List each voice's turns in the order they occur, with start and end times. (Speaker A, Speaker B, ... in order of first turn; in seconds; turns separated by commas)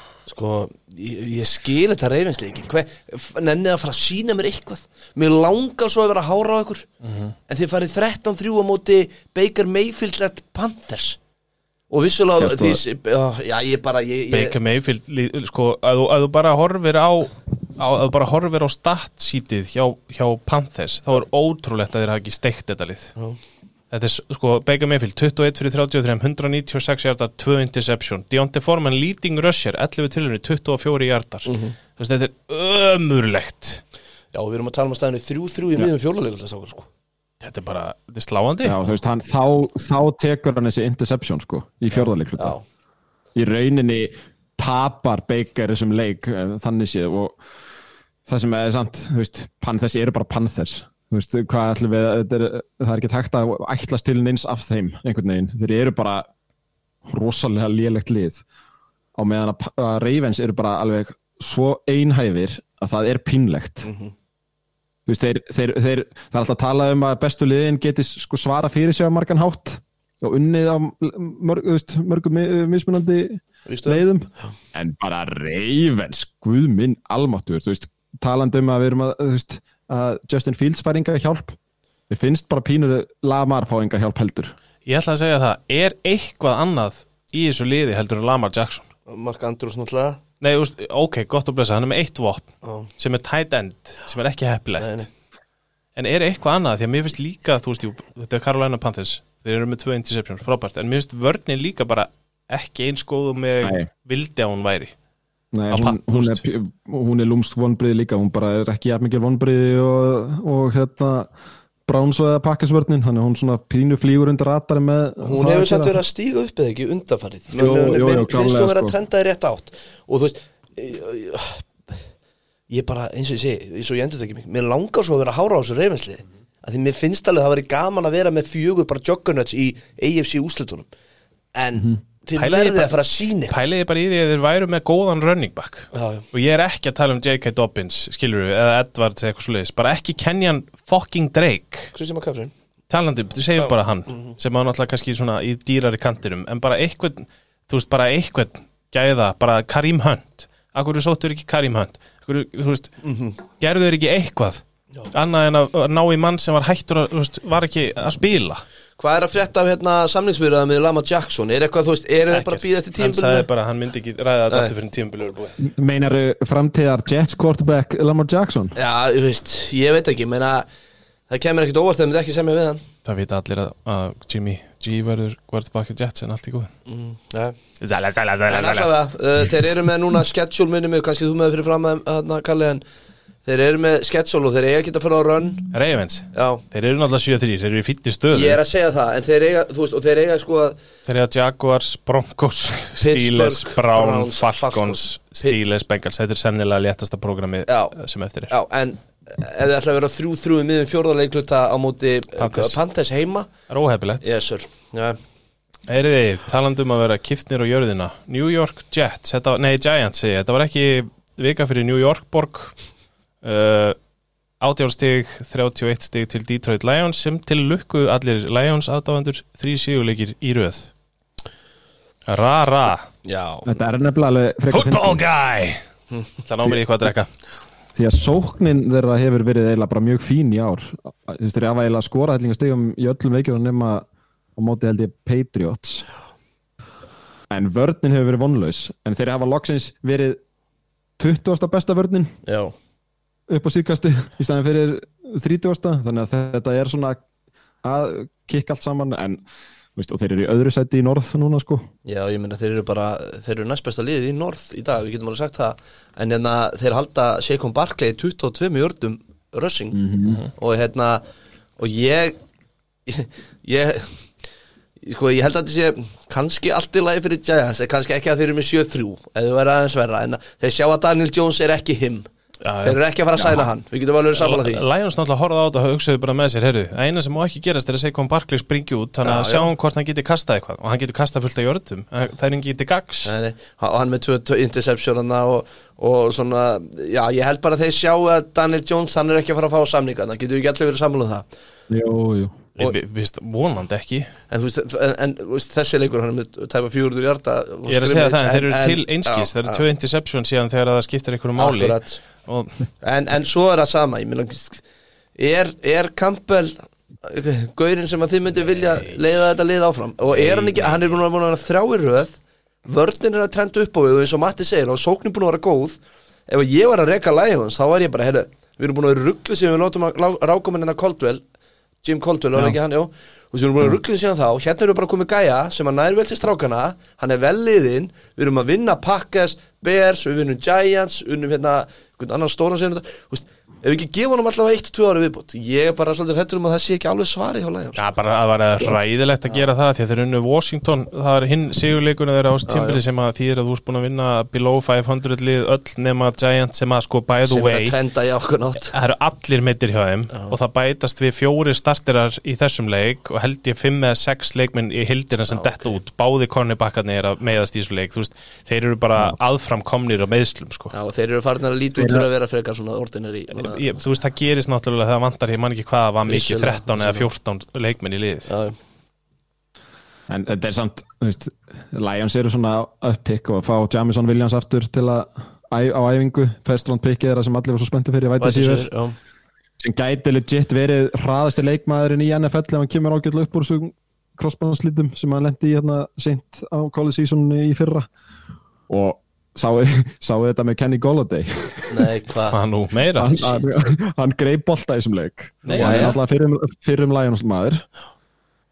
Speaker A: 0.3-6.9, Speaker B: 7.0-7.3, Speaker A: 7.5-11.2, Speaker A: 11.9-14.6, Speaker C: 12.4-12.8, Speaker B: 14.3-23.2, Speaker B: 23.9-33.8, Speaker A: 31.5-31.8, Speaker A: 34.3-36.9, Speaker B: 37.4-38.8, Speaker C: 38.6-42.6, Speaker A: 42.0-42.6, Speaker C: 43.4-47.4, Speaker C: 48.3-56.3, Speaker C: 57.1-58.4, Speaker C: 59.1-63.9, Speaker A: 63.8-64.1, Speaker C: 65.1-81.6, Speaker A: 73.7-74.0, Speaker C: 82.1-84.5, Speaker B: 84.9-88.9, Speaker A: 89.1-90.2, Speaker B: 90.4-95.1, Speaker A: 92.6-92.9, Speaker A: 94.8-95.1, Speaker B: 96.0-104.9, Speaker C: 103.6-103.9, Speaker C: 105.5-111.3, Speaker B: 105.7-106.4, Speaker C: 111.9-116.0, Speaker A: 115.2-122.0, Speaker C: 117.5-119.0, Speaker A: 122.7-130.9, Speaker A: 131.5-133.5, Speaker B: 132.4-141.9, Speaker A: 135.9-136.3, Speaker A: 141.9-142.5, Speaker B: 142.9-158.6, Speaker A: 153.0-153.4, Speaker A: 159.0-163.5, Speaker B: 162.3-165.6, Speaker C: 165.6-168.8, Speaker A: 168.8-170.7, Speaker A: 171.3-172.8, Speaker B: 173.1-176.7, Speaker A: 176.9-177.6, Speaker B: 177.8-178.9, Speaker A: 178.5-182.8, Speaker A: 183.4-185.7, Speaker B: 185.7-188.6, Speaker A: 186.3-186.6, Speaker A: 188.3-190.8, Speaker B: 191.1-198.5, Speaker A: 193.0-195.6, Speaker A: 197.7-197.9, Speaker A: 198.5-203.5, Speaker B: 202.4-202.8, Speaker B: 203.7-204.2, Speaker A: 204.2-205.2, Speaker B: 205.9-212.8, Speaker B: 213.4-214.0, Speaker B: 214.6-220.9, Speaker B: 222.3-223.1, Speaker A: 223.2-223.7, Speaker C: 223.7-225.2, Speaker B: 224.7-225.8, Speaker B: 226.4-227.3, Speaker C: 227.9-236.1, Speaker C: 237.5-240.4, Speaker C: 241.2-242.3, Speaker A: 242.5-242.7, Speaker C: 243.5-247.2, Speaker C: 247.8-249.4, Speaker C: 250.0-251.9, Speaker A: 252.1-260.0, Speaker C: 259.9-260.4, Speaker A: 260.6-261.2, Speaker A: 261.8-262.4, Speaker A: 263.1-264.2, Speaker A: 265.0-272.3, Speaker B: 272.6-273.7, Speaker A: 272.8-274.8, Speaker B: 274.4-283.3, Speaker A: 279.2-279.7, Speaker A: 283.2-291.5, Speaker C: 291.9-292.6, Speaker B: 292.8-294.3, Speaker A: 294.5-299.8, Speaker B: 297.9-302.9, Speaker A: 301.6-302.2, Speaker A: 303.0-304.8, Speaker A: 305.4-321.4, Speaker B: 308.8-309.2, Speaker B: 310.3-311.1, Speaker A: 322.0-338.0, Speaker B: 338.0-347.9, Speaker A: 342.7-343.0, Speaker A: 347.5-348.9, Speaker B: 348.8-360.9, Speaker A: 355.5-356.0, Speaker A: 360.9-363.8, Speaker C: 361.9-362.2, Speaker B: 363.5-368.5, Speaker A: 366.3-367.3, Speaker A: 368.5-368.8, Speaker C: 370.3-378.9, Speaker A: 378.4-379.2, Speaker C: 379.8-388.1, Speaker C: 388.9-392.1, Speaker A: 391.9-392.6, Speaker B: 392.5-393.5, Speaker C: 393.2-397.8, Speaker B: 395.6-396.1, Speaker A: 395.7-396.2